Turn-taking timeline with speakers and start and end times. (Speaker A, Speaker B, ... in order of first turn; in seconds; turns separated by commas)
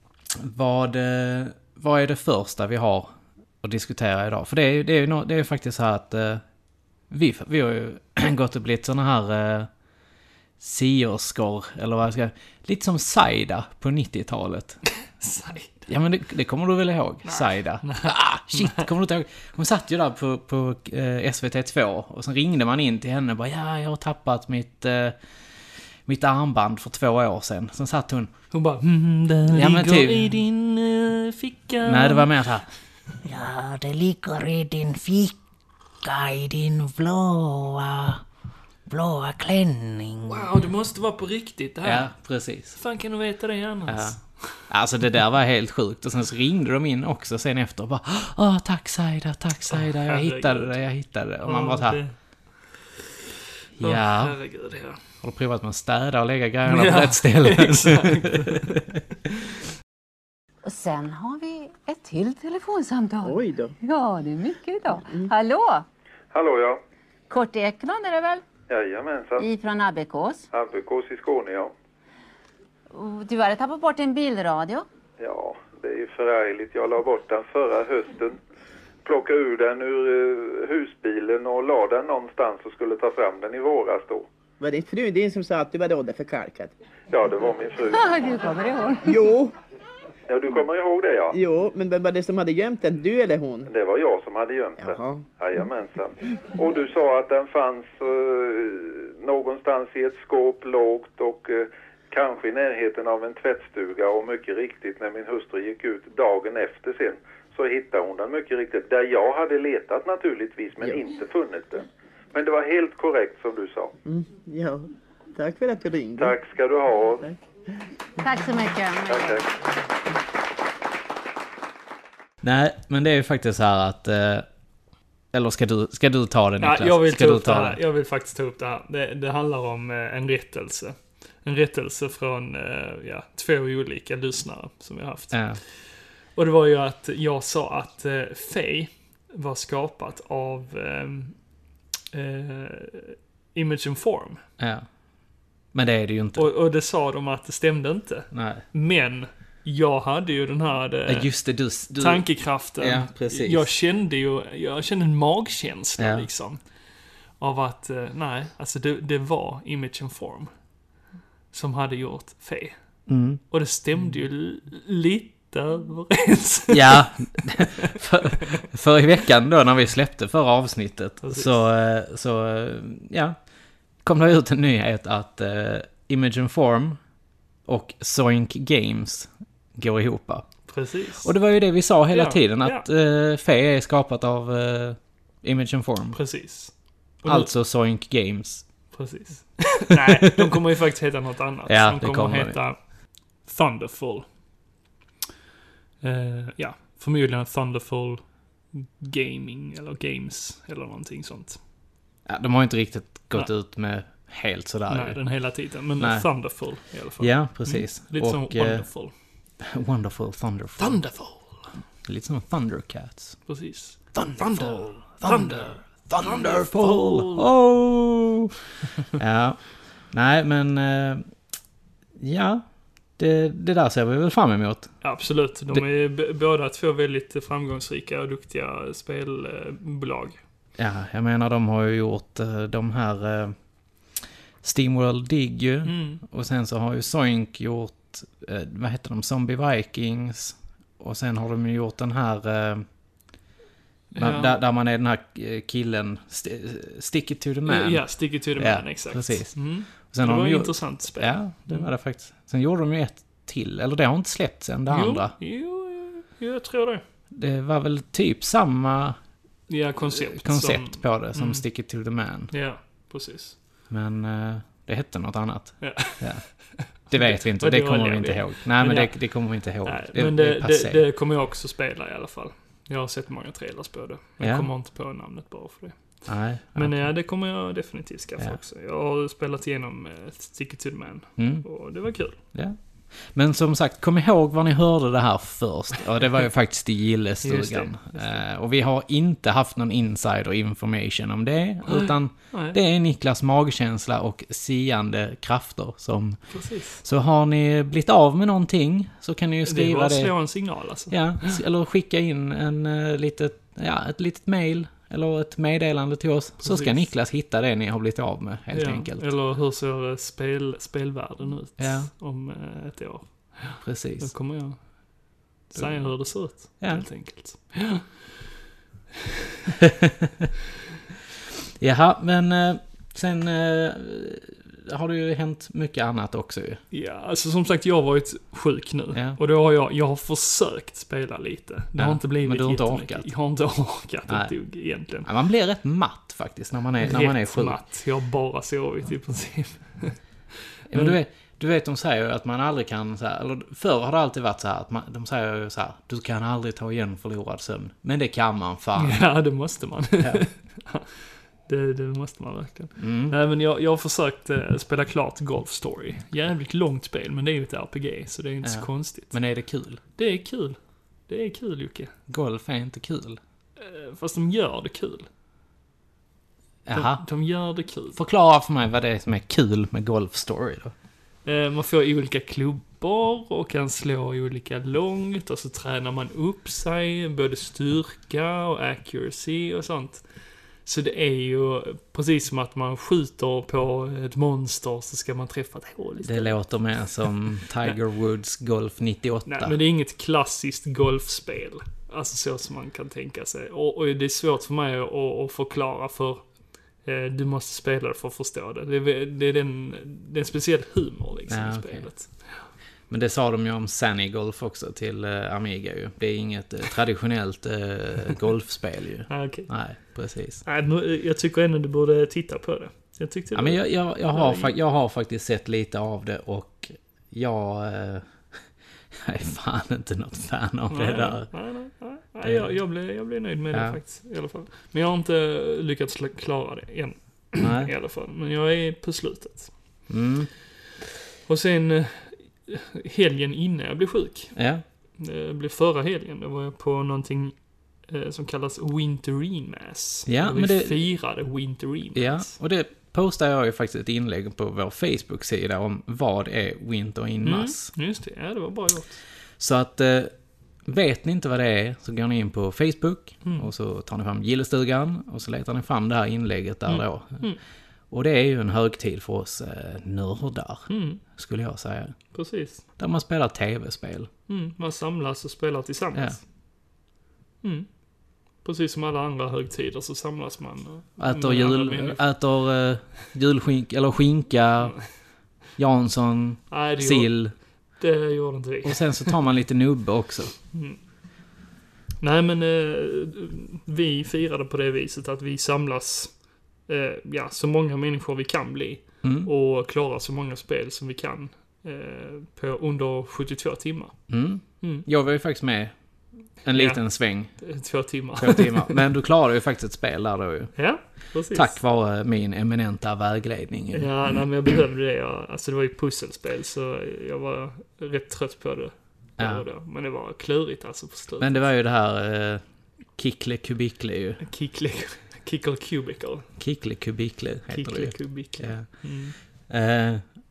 Speaker A: 0.3-6.4, Speaker A: 7.1-9.7, Speaker A: 10.6-14.8, Speaker B: 15.1-15.8, Speaker A: 15.9-25.2, Speaker B: 17.2-18.9, Speaker A: 26.1-28.3, Speaker B: 28.5-32.3, Speaker A: 29.5-30.4, Speaker A: 31.8-32.7, Speaker C: 33.2-35.4, Speaker C: 36.0-38.2, Speaker C: 38.9-40.5, Speaker B: 40.2-42.1, Speaker A: 41.8-42.8, Speaker B: 42.7-44.7, Speaker A: 43.9-52.0, Speaker B: 49.7-50.7, Speaker B: 51.4-52.1, Speaker A: 53.8-54.4, Speaker B: 53.8-55.0, Speaker A: 55.2-59.0, Speaker B: 56.7-58.8, Speaker D: 60.6-65.8, Speaker E: 63.2-63.7, Speaker F: 66.3-66.8, Speaker D: 67.3-68.4, Speaker F: 68.7-69.5, Speaker D: 69.4-70.5, Speaker F: 70.5-71.7, Speaker D: 72.9-74.8, Speaker F: 75.2-78.4, Speaker F: 79.0-84.3, Speaker E: 84.6-86.7, Speaker F: 87.1-88.3, Speaker D: 87.9-89.2, Speaker E: 89.1-89.5, Speaker F: 90.3-91.4, Speaker E: 91.3-93.7, Speaker F: 93.7-113.9, Speaker E: 94.8-95.2, Speaker E: 114.0-116.4, Speaker F: 116.2-117.3, Speaker D: 118.2-119.4, Speaker F: 119.1-119.5, Speaker A: 122.4-124.5, Speaker A: 125.3-127.8, Speaker B: 126.6-135.4, Speaker A: 135.3-135.6, Speaker B: 136.3-141.3, Speaker B: 142.1-144.4, Speaker A: 144.6-144.8, Speaker A: 145.7-146.5, Speaker B: 146.3-151.3, Speaker A: 148.3-148.6, Speaker A: 151.1-153.7, Speaker B: 152.0-156.6, Speaker A: 156.0-156.3, Speaker B: 157.4-160.5, Speaker B: 161.5-162.7, Speaker A: 163.1-163.4, Speaker B: 163.5-167.0, Speaker A: 166.7-173.4, Speaker B: 171.2-171.5, Speaker A: 174.0-177.0, Speaker A: 177.7-180.7, Speaker B: 180.7-181.3, Speaker A: 181.2-186.2, Speaker B: 182.1-182.8, Speaker B: 186.1-187.5, Speaker A: 187.2-188.6, Speaker B: 188.9-192.8, Speaker A: 189.9-190.6, Speaker A: 191.7-192.6, Speaker B: 193.4-194.3, Speaker B: 196.0-201.6, Speaker A: 202.2-205.3, Speaker B: 204.9-209.1, Speaker A: 206.0-206.6, Speaker A: 207.2-208.9, Speaker A: 209.6-211.0, Speaker B: 210.8-211.7, Speaker A: 212.0-213.4, Speaker B: 213.5-217.5, Speaker A: 214.1-218.5, Speaker A: 219.1-221.2, Speaker A: 222.2-222.6, Speaker A: 223.2-225.0, Speaker B: 225.0-230.4, Speaker A: 230.8-233.5, Speaker A: 234.6-242.8, Speaker B: 235.8-236.2, Speaker B: 244.1-244.6, Speaker A: 244.2-255.3, Speaker B: 247.6-251.9, Speaker B: 254.9-257.0, Speaker A: 257.3-259.2, Speaker B: 259.7-261.6, Speaker A: 260.0-262.5, Speaker B: 262.5-263.6, Speaker A: 263.9-271.0, Speaker B: 265.8-269.2, Speaker B: 269.8-282.4, Speaker A: 274.4-274.7, Speaker A: 276.3-277.1, Speaker A: 281.4-281.7, Speaker A: 282.5-296.4, Speaker B: 287.4-288.4, Speaker B: 291.8-292.8, Speaker B: 296.5-297.0, Speaker A: 297.0-309.3, Speaker B: 299.6-301.6, Speaker B: 306.6-307.0, Speaker B: 308.7-318.3, Speaker A: 311.8-312.1, Speaker A: 313.8-314.3, Speaker A: 315.7-317.1, Speaker A: 319.9-320.4, Speaker A: 321.8-326.8, Speaker B: 326.9-335.3, Speaker A: 329.1-329.4, Speaker A: 332.0-333.3, Speaker A: 334.3-334.5, Speaker A: 335.2-337.8, Speaker B: 337.0-340.2, Speaker A: 340.9-349.2, Speaker B: 340.9-341.2, Speaker B: 348.9-359.4, Speaker A: 350.2-350.4, Speaker A: 353.0-353.4, Speaker A: 358.6-360.0, Speaker B: 360.2-362.1, Speaker A: 362.3-363.4, Speaker B: 363.8-365.3, Speaker A: 366.9-367.2, Speaker B: 366.9-368.2, Speaker A: 368.1-370.9, Speaker B: 371.4-380.3, Speaker B: 380.8-386.6, Speaker A: 386.2-389.8, Speaker B: 389.4-396.4, Speaker B: 397.0-402.6, Speaker A: 401.5-402.1, Speaker A: 403.1-410.6, Speaker B: 409.3-409.7, Speaker B: 410.6-414.7, Speaker A: 413.5-418.3, Speaker A: 419.1-421.5, Speaker B: 420.9-429.7, Speaker A: 422.4-422.8, Speaker A: 423.7-424.0, Speaker A: 427.6-427.9, Speaker A: 430.1-430.5, Speaker B: 431.5-434.5, Speaker A: 434.5-434.8, Speaker B: 435.2-442.5, Speaker A: 440.2-441.1, Speaker A: 442.1-447.9, Speaker B: 447.4-449.2, Speaker A: 449.6-457.5, Speaker B: 453.4-453.7, Speaker B: 456.9-457.6, Speaker A: 458.1-462.2, Speaker B: 460.9-461.2, Speaker B: 462.3-462.8, Speaker A: 463.0-464.3, Speaker B: 464.5-466.4, Speaker B: 467.6-467.9, Speaker B: 468.6-472.2, Speaker A: 471.2-475.0, Speaker A: 475.8-477.5, Speaker B: 476.7-477.3, Speaker B: 478.0-479.4, Speaker A: 478.8-480.5, Speaker B: 480.7-481.0, Speaker B: 482.2-486.3, Speaker B: 486.9-494.2, Speaker A: 489.2-489.5, Speaker A: 494.3-495.9, Speaker B: 494.8-495.1, Speaker A: 496.6-497.6, Speaker B: 496.7-499.0, Speaker A: 498.4-500.8, Speaker B: 500.8-501.8, Speaker A: 501.4-504.1, Speaker B: 503.9-511.7, Speaker A: 509.4-509.6, Speaker A: 511.4-512.6, Speaker A: 513.1-514.4, Speaker B: 514.4-516.5, Speaker A: 516.6-519.0, Speaker B: 517.7-519.3, Speaker A: 519.7-520.2